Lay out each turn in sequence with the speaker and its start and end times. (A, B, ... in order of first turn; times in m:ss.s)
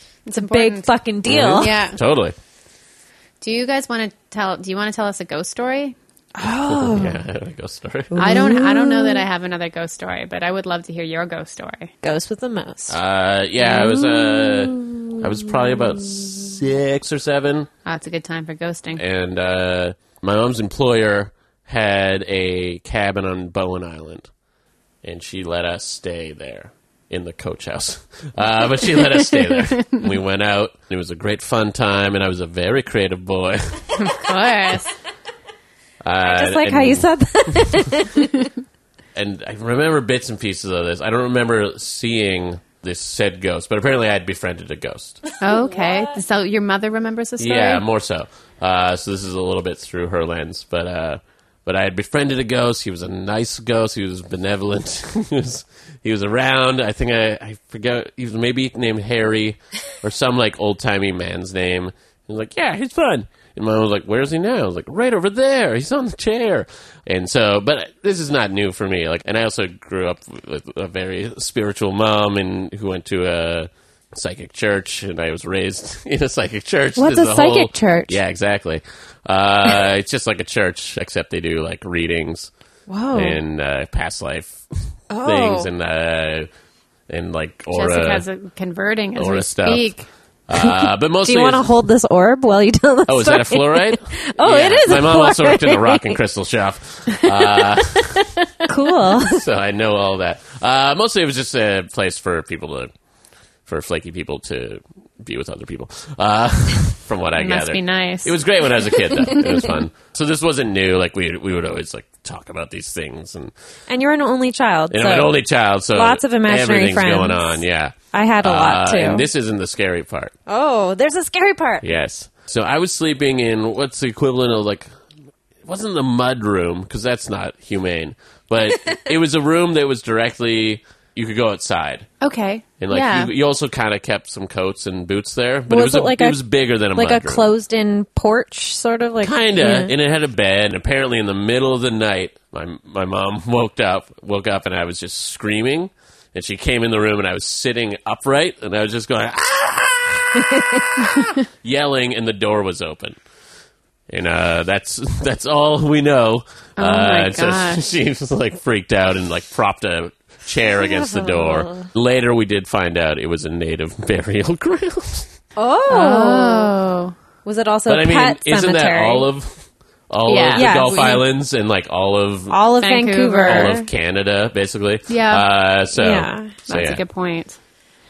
0:00.3-0:00.9 A
0:00.4-0:01.8 B
0:01.3-0:02.4 C
0:01.6-0:02.0 A
0:03.4-0:06.0 A
0:06.4-0:07.2 B
0:06.7-0:08.5 C
0:08.1-0:09.2 B
0:08.2-0:11.9 A
0:12.0-0:13.0 B
0:12.9-0:17.7 C
0:13.6-0:16.6 B
0:17.9-0:19.0 A
0:19.0-0:24.3 C
0:25.0-0:34.2 C
0:29.2-0:30.1 A
0:34.0-0:34.9 A
0:36.0-0:37.9 C
0:36.3-0:38.5 B
0:39.2-0:45.2 C
0:45.4-0:47.8 A
0:45.5-0:46.2 B
0:47.4-1:22.5 C
1:17.0-1:18.2 B
1:22.9-1:23.4 B
1:23.1-1:24.6 C
1:25.1-1:25.7 B
1:25.2-1:26.5 C
1:27.1-1:28.2 C
1:27.7-1:30.1 A
1:29.2-1:29.9 C
1:30.5-1:31.7 C
1:30.6-1:36.2 B
1:33.1-1:38.3 C
1:38.1-1:38.7 A
1:38.7-1:39.4 B
1:39.2-1:42.9 C
1:43.7-1:53.5 C
1:47.4-1:48.3 A
1:53.9-1:55.4 B
1:54.9-2:00.3 C
1:55.9-1:57.6 B
1:58.1-1:59.3 B
2:00.5-2:01.8 B
2:01.8-2:04.9 C
2:05.6-2:12.1 C
2:12.2-2:13.3 A
2:12.8-2:17.4 C
2:15.7-2:16.4 B
2:17.0-2:19.9 B
2:19.2-2:33.2 C
2:34.1-2:45.3 C
2:36.8-2:37.8 A
2:40.8-2:41.9 B
2:45.6-2:46.7 B
2:45.9-2:47.2 A
2:47.4-2:49.3 B
2:47.9-2:52.6 C
2:50.3-2:50.7 A
2:50.5-2:51.3 B
2:52.5-2:53.9 B
2:52.8-2:53.8 A
2:53.5-2:57.0 C
2:55.1-2:55.4 A
2:56.0-2:56.6 B
2:56.7-2:57.6 A